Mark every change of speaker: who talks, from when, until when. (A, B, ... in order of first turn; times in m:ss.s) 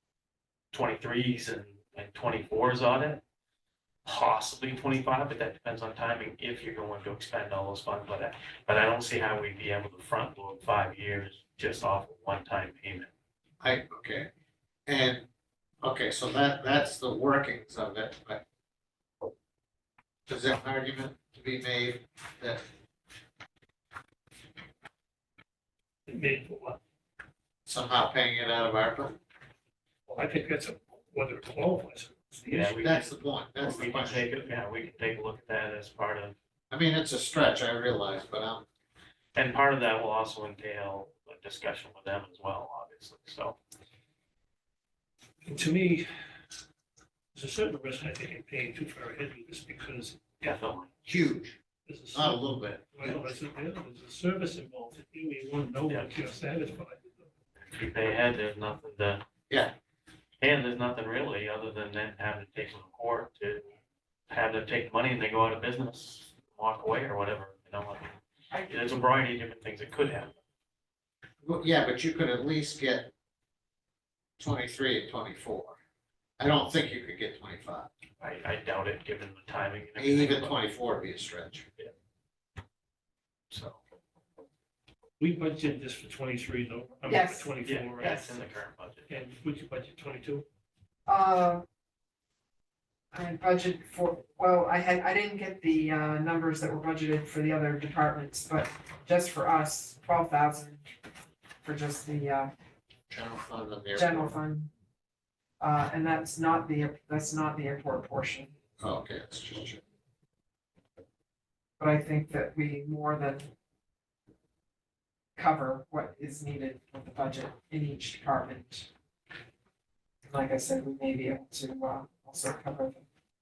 0:00.7-0:03.2 A
0:04.0-0:13.1 A
0:13.6-0:14.3 B
0:14.9-0:15.2 B
0:15.8-0:18.4 B
0:20.3-0:22.6 B
0:26.1-0:26.8 C
0:27.6-0:29.2 B
0:30.1-0:32.8 C
0:32.5-0:36.3 A
0:32.8-0:34.3 B
0:36.7-0:38.6 B
0:39.3-0:43.6 A
0:45.4-0:46.1 C
0:47.3-0:50.4 C
0:50.4-0:50.9 A
0:51.0-0:51.6 B
0:51.9-0:57.1 C
0:52.1-0:53.3 B
0:57.6-0:59.2 A
0:59.5-0:59.7 B
1:00.4-1:03.7 A
1:04.3-1:10.3 A
1:11.4-1:13.1 B
1:14.4-1:15.8 B
1:16.4-1:17.9 B
1:18.2-1:20.6 A
1:20.0-1:21.6 B
1:23.5-1:23.8 A
1:25.2-1:28.2 C
1:27.0-1:28.3 D
1:27.6-1:29.1 A
1:29.1-1:30.4 C
1:31.0-1:31.6 D
1:33.1-1:40.9 D
1:41.6-1:42.5 D
1:43.1-1:44.3 B
1:43.9-1:44.7 D
1:45.6-1:48.5 D
1:48.8-1:49.8 B
1:51.8-1:53.5 D
1:55.4-1:58.9 D
2:00.2-2:03.0 D